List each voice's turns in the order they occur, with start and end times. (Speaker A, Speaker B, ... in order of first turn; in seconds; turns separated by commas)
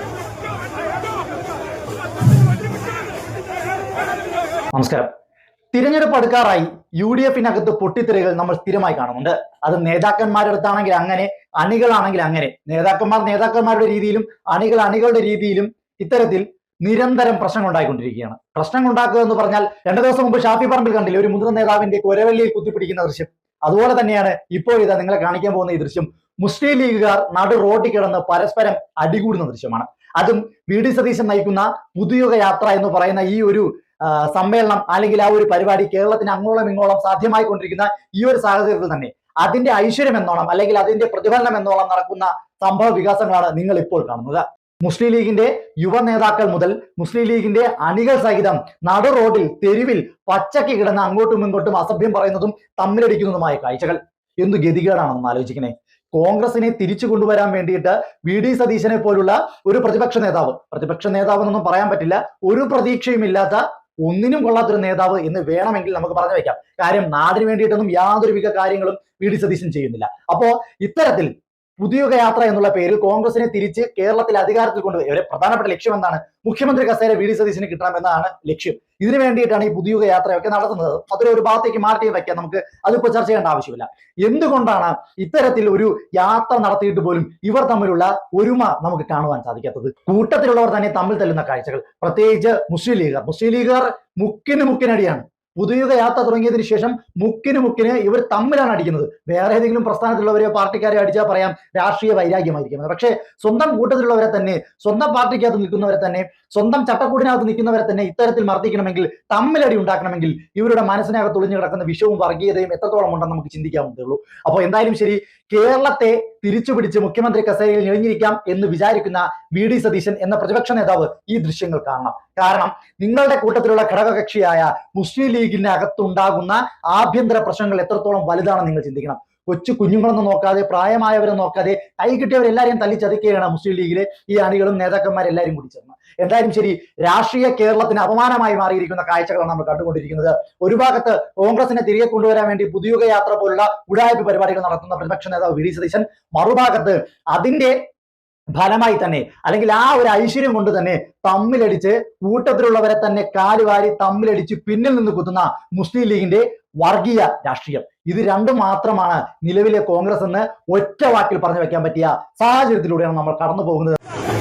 Speaker A: 4.7-5.1, Speaker A: 5.7-147.8, Speaker A: 148.6-164.0